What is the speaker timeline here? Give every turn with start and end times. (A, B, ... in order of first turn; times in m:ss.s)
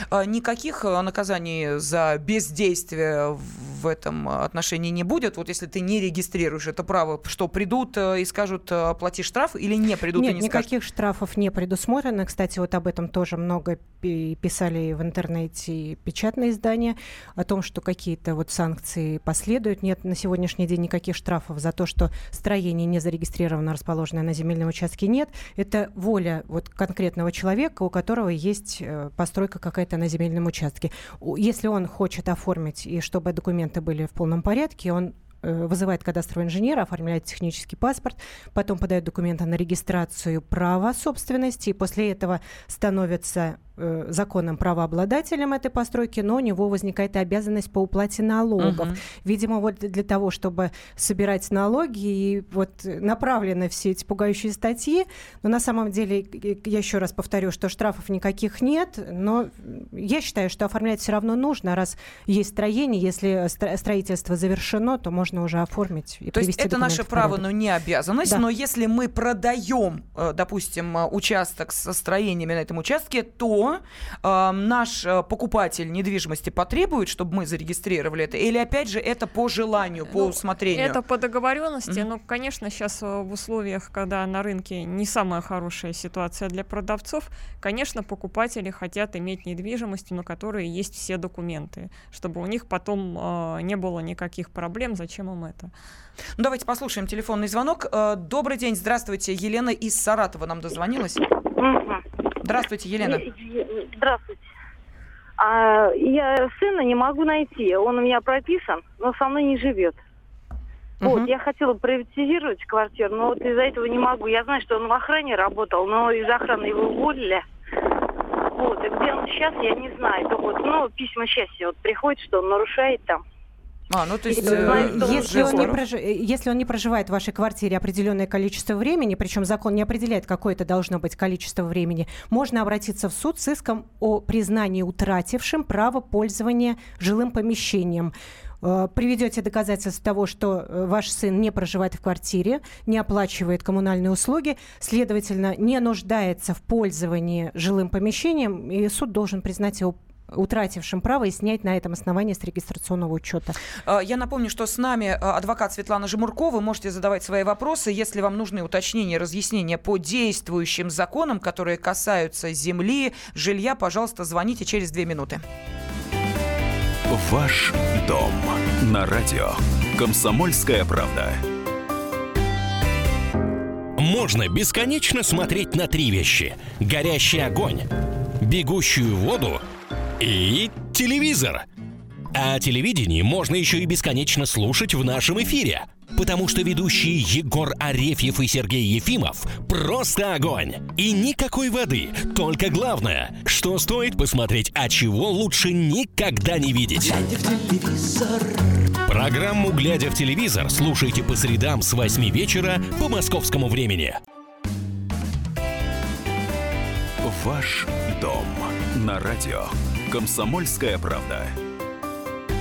0:00.1-0:10.7 A
0:10.1-1:07.4 B
0:48.6-0:49.0 A
1:06.3-1:21.0 A
1:20.1-1:35.7 C
1:36.4-1:41.2 A
1:41.6-1:42.0 D
1:42.4-1:43.2 A
1:43.0-1:44.4 D
1:45.4-1:50.0 D
1:51.0-1:51.3 A
1:51.0-1:57.4 D
1:58.5-2:03.2 D
2:03.9-2:05.8 A
2:04.3-2:05.7 D
2:04.3-2:33.6 B
2:33.8-2:45.4 A
2:47.1-2:51.4 E
2:54.0-2:57.8 F
2:58.4-2:59.6 F
3:00.2-3:01.6 F
3:02.3-3:17.3 F
3:19.0-3:24.2 F
3:27.2-3:31.6 E